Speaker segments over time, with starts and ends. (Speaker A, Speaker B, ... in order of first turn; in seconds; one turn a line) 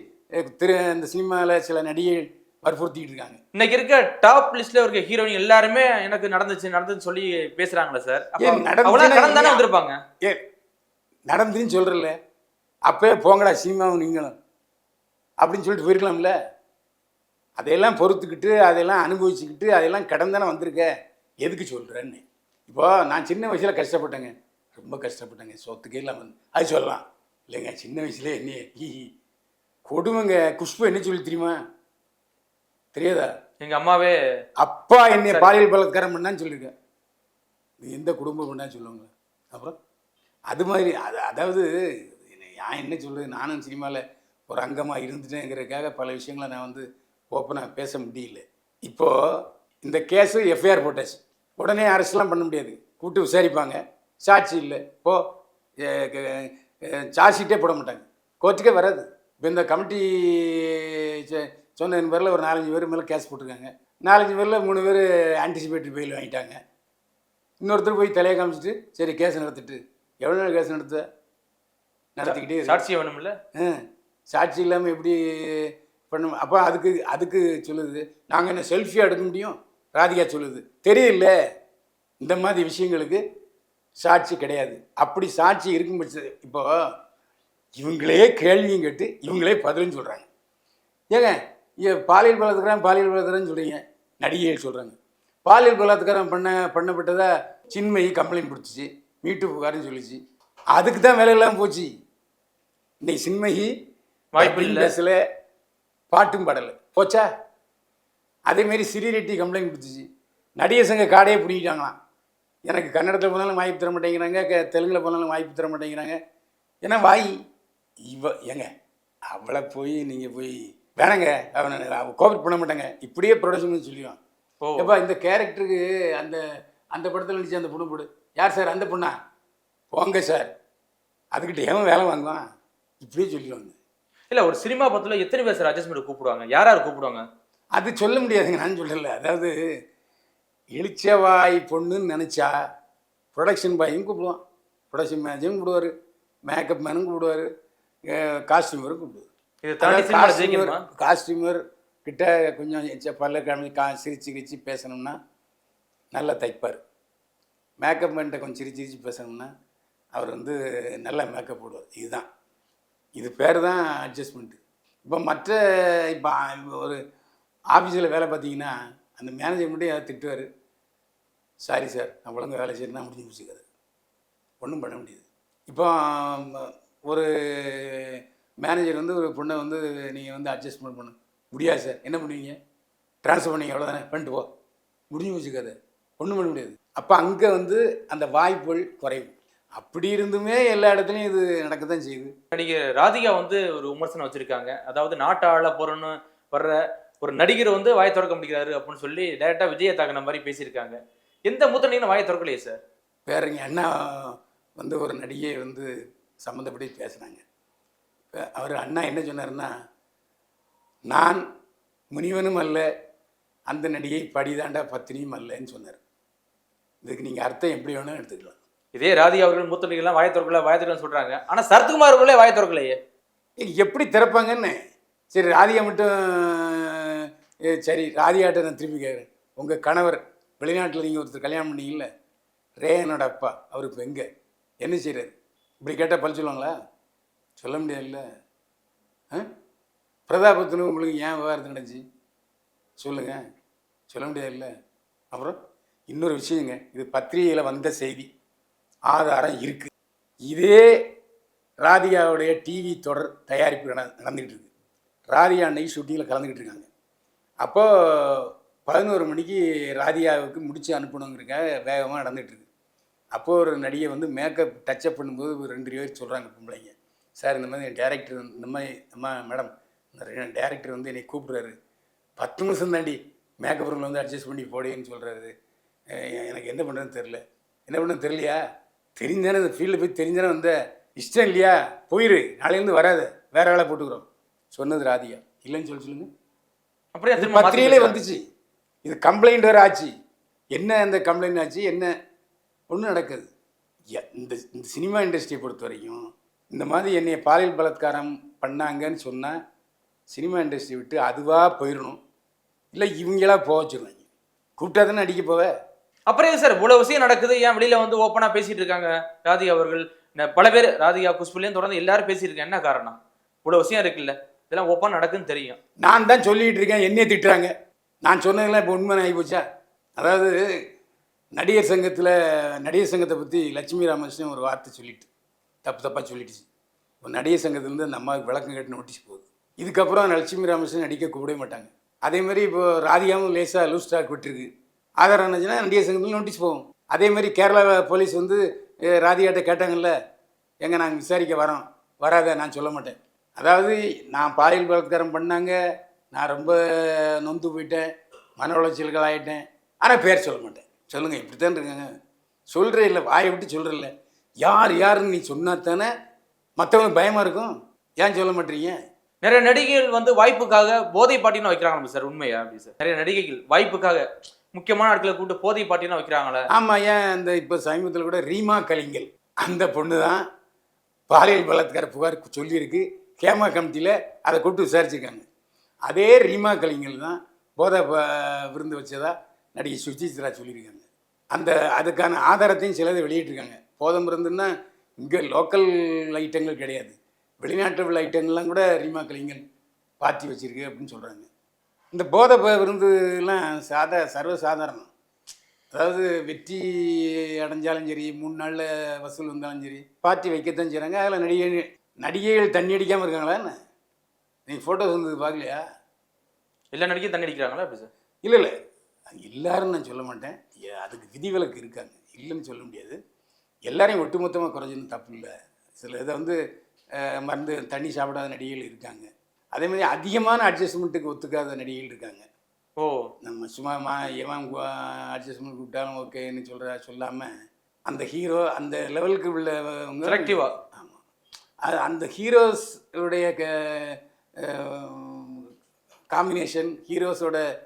Speaker A: 0.4-3.4
Speaker B: 3.5-10.0
Speaker A: 8.4-9.7
Speaker A: 11.3-12.1
Speaker A: 12.9-14.3
Speaker A: 15.4-16.3
Speaker A: 17.6-20.9
Speaker A: 21.4-29.1
Speaker A: 29.9-31.6
Speaker A: 32.9-33.3
Speaker B: 33.6-34.1
Speaker A: 34.6-36.7
Speaker B: 35.3-35.6
Speaker A: 37.8-39.7
Speaker A: 40.5-49.1
Speaker A: 49.8-55.2
Speaker A: 55.8-66.6
Speaker A: 67.6-71.0
Speaker A: 72.2-72.8
Speaker B: 72.2-73.3
Speaker A: 73.5-81.3
Speaker A: 82.2-83.2
Speaker A: 84.0-86.7
Speaker A: 87.8-90.3
Speaker A: 91.1-100.2
Speaker A: 100.7-101.9
Speaker A: 103.0-103.7
Speaker B: 104.3-104.9
Speaker A: 104.4-105.2
Speaker A: 106.1-107.2
Speaker A: 108.5-110.0
Speaker A: 110.6-111.9
Speaker A: 112.7-116.2
Speaker A: 116.8-117.3
Speaker A: 118.1-118.7
Speaker A: 119.3-124.2
Speaker B: 124.6-124.9
Speaker A: 124.8-126.4
Speaker A: 126.9-129.1
Speaker A: 129.9-130.5
Speaker A: 131.3-132.4
Speaker A: 133.0-133.7
Speaker B: 134.3-137.2
Speaker A: 137.7-139.5
Speaker A: 140.7-142.5
Speaker A: 143.3-144.4
Speaker A: 144.9-145.9
Speaker A: 146.5-147.4
Speaker A: 148.1-149.3
Speaker B: 149.6-150.8
Speaker A: 149.8-155.2
Speaker A: 156.1-156.8
Speaker A: 157.8-159.5
Speaker A: 160.1-162.2
Speaker A: 163.2-167.0
Speaker A: 167.7-170.5
Speaker A: 171.6-173.6
Speaker A: 174.6-182.6
Speaker A: 183.2-184.5
Speaker A: 185.1-192.3
Speaker B: 192.5-202.8
Speaker A: 203.3-205.9
Speaker A: 206.4-207.4
Speaker A: 208.6-209.7
Speaker A: 211.1-211.4
Speaker A: 212.1-212.8
Speaker A: 213.7-216.0
Speaker A: 217.0-218.6
Speaker B: 218.9-223.0
Speaker A: 223.6-224.8
Speaker A: 225.3-232.1
Speaker A: 232.8-234.2
Speaker A: 234.8-236.7
Speaker A: 237.6-238.2
Speaker A: 240.3-242.0
Speaker A: 243.0-243.4
Speaker A: 244.1-244.7
Speaker A: 246.1-248.3
Speaker A: 249.1-249.9
Speaker A: 250.5-250.9
Speaker A: 251.8-254.7
Speaker A: 255.3-256.9
Speaker A: 257.6-262.6
Speaker A: 263.3-271.7
Speaker A: 272.4-275.5
Speaker A: 276.1-278.6
Speaker A: 279.2-286.3
Speaker B: 287.1-288.2
Speaker A: 287.4-288.4
Speaker A: 289.0-290.1
Speaker A: 290.7-292.1
Speaker A: 292.9-293.5
Speaker A: 294.1-299.5
Speaker A: 300.3-302.2
Speaker A: 302.9-304.2
Speaker A: 304.8-305.7
Speaker B: 306.3-315.8
Speaker A: 316.0-317.7
Speaker A: 318.2-319.6
Speaker A: 320.2-320.6
Speaker A: 321.5-325.3
Speaker A: 325.8-326.7
Speaker A: 327.2-334.7
Speaker A: 335.2-340.1
Speaker A: 340.8-345.7
Speaker A: 346.3-348.1
Speaker A: 348.6-352.0
Speaker A: 352.7-356.1
Speaker A: 356.8-358.9
Speaker B: 359.4-366.6
Speaker A: 366.7-370.4
Speaker A: 371.3-375.4
Speaker A: 376.0-384.7
Speaker A: 385.2-389.6
Speaker A: 390.2-391.5
Speaker A: 392.1-395.1
Speaker A: 395.9-403.7
Speaker A: 404.7-405.8
Speaker B: 406.9-408.1
Speaker A: 408.4-408.7
Speaker A: 409.3-413.2
Speaker A: 413.9-416.6
Speaker A: 417.2-422.4
Speaker B: 423.0-423.3
Speaker A: 423.4-427.5
Speaker A: 428.1-431.2
Speaker B: 430.2-430.7
Speaker A: 431.8-435.7
Speaker A: 436.3-437.6